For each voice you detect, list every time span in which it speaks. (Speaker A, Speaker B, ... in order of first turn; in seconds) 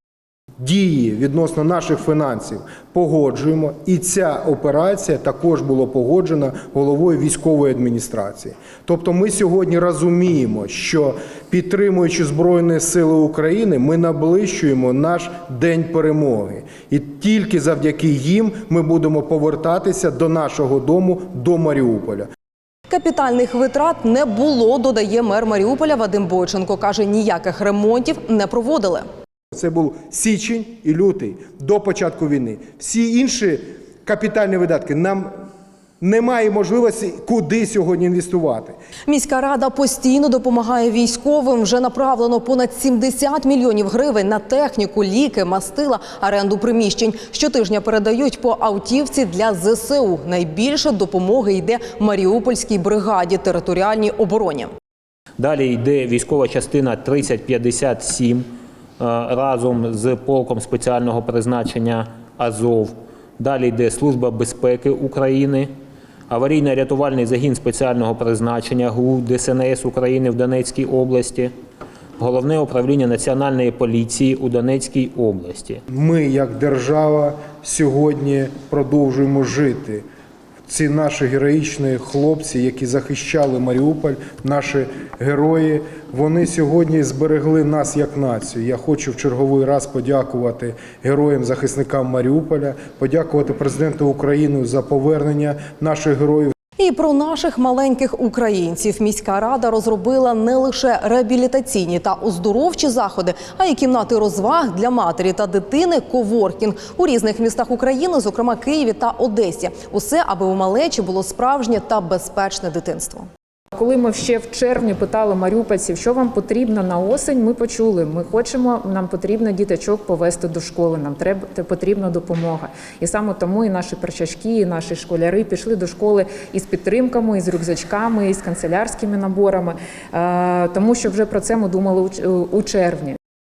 Speaker A: 0.6-22.3, 29.5-35.3, 36.0-38.7, 75.9-80.0, 80.7-96.5
Speaker B: 22.9-29.0, 39.1-54.7, 96.8-113.2
Speaker C: 55.4-58.4, 59.0-65.7, 66.3-71.5, 72.2-75.8
Speaker D: 113.7-133.2